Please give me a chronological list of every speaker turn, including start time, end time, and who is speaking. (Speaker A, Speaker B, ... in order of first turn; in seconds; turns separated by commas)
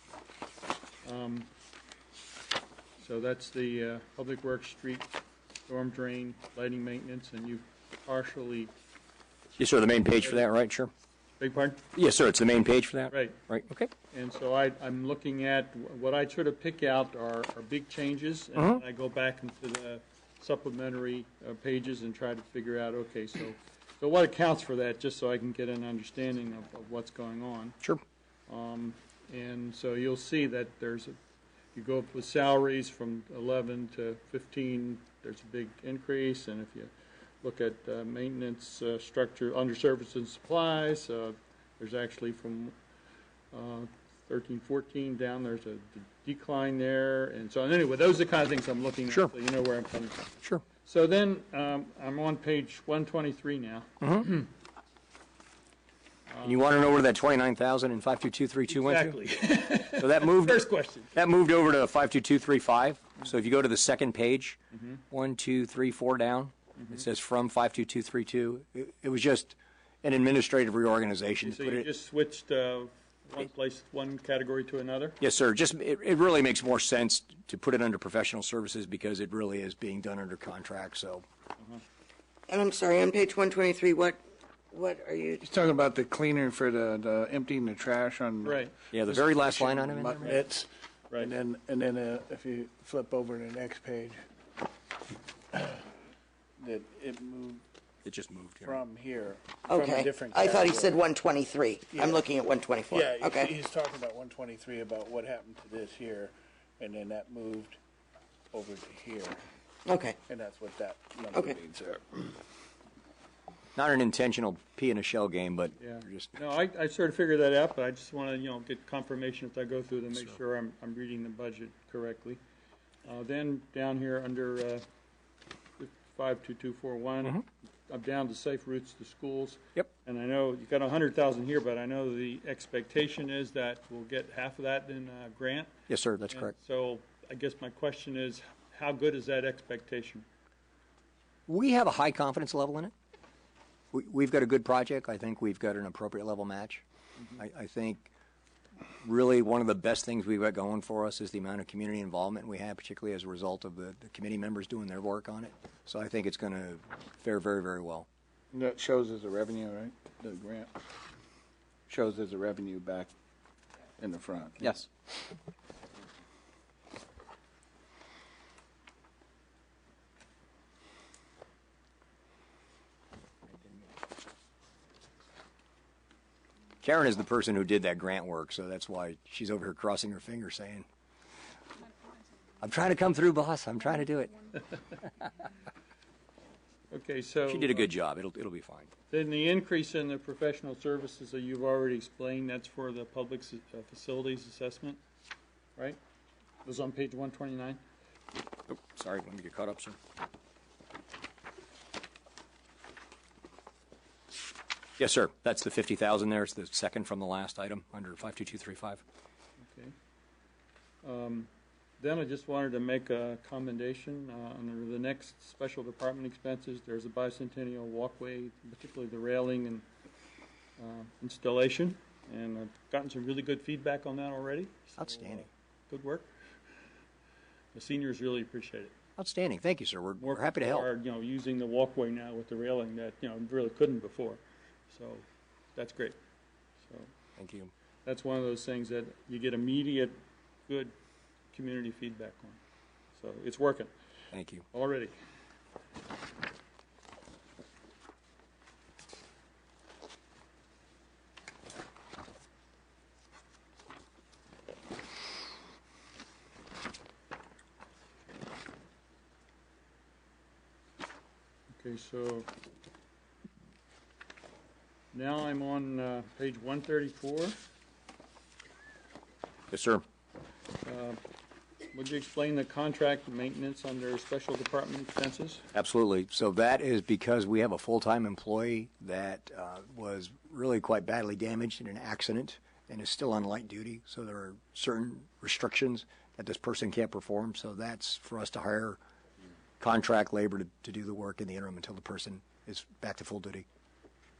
Speaker A: 1.0-1.5, Speaker A: 3.0-5.1, Speaker A: 5.7-8.7, Speaker B: 9.6-10.9, Speaker A: 10.2-10.5, Speaker A: 11.4-11.8, Speaker B: 11.9-13.9, Speaker A: 13.1-13.4, Speaker A: 14.1-27.8, Speaker B: 18.6-18.8, Speaker A: 28.5-31.2, Speaker A: 31.7-36.9, Speaker A: 37.4-42.7, Speaker A: 43.5-50.2, Speaker A: 50.8-54.5, Speaker B: 54.0-54.3, Speaker A: 56.3-56.6, Speaker B: 56.4-59.2, Speaker A: 58.7-61.1, Speaker B: 59.9-64.6, Speaker A: 64.7-65.0, Speaker B: 65.1-71.9, Speaker A: 66.8-67.0, Speaker A: 71.4-75.2, Speaker B: 75.2-81.2, Speaker C: 82.5-84.2, Speaker C: 84.7-85.4, Speaker D: 85.4-88.7, Speaker A: 88.4-90.4, Speaker B: 88.9-90.4, Speaker D: 89.9-90.7, Speaker D: 91.2-94.2, Speaker D: 95.5-95.9, Speaker D: 96.6-97.6, Speaker B: 98.0-98.8, Speaker D: 98.6-101.0, Speaker C: 99.7-103.5, Speaker D: 101.9-102.3, Speaker D: 102.9-107.8, Speaker D: 108.5-109.4, Speaker C: 109.9-110.2, Speaker D: 110.3-112.4, Speaker B: 113.8-116.4, Speaker A: 115.8-122.4, Speaker A: 123.0-124.8, Speaker A: 125.8-135.7, Speaker B: 135.9-136.5, Speaker A: 136.3-140.2, Speaker B: 141.5-142.9, Speaker B: 143.9-146.8, Speaker B: 147.4-148.1, Speaker B: 149.0-158.1, Speaker D: 158.5-160.7, Speaker D: 161.9-163.1, Speaker D: 164.0-164.8, Speaker B: 176.8-180.8, Speaker B: 182.6-184.6, Speaker A: 186.9-187.9, Speaker B: 187.5-188.9, Speaker A: 189.1-195.0, Speaker A: 196.6-197.8, Speaker B: 198.7-200.0, Speaker B: 205.0-209.0, Speaker A: 209.6-209.9, Speaker A: 211.0-219.8, Speaker A: 220.8-226.3, Speaker B: 225.0-225.5, Speaker A: 227.8-228.9, Speaker B: 229.2-230.9, Speaker A: 230.2-236.2, Speaker A: 236.8-237.1, Speaker B: 237.4-237.7, Speaker A: 238.0-240.9, Speaker A: 241.5-242.6, Speaker A: 243.2-243.9, Speaker B: 244.3-244.7, Speaker A: 244.7-245.2, Speaker A: 261.8-262.5, Speaker A: 265.1-267.6, Speaker B: 269.7-270.0, Speaker A: 270.9-271.2, Speaker A: 271.9-275.6, Speaker B: 275.7-289.0, Speaker B: 289.8-293.6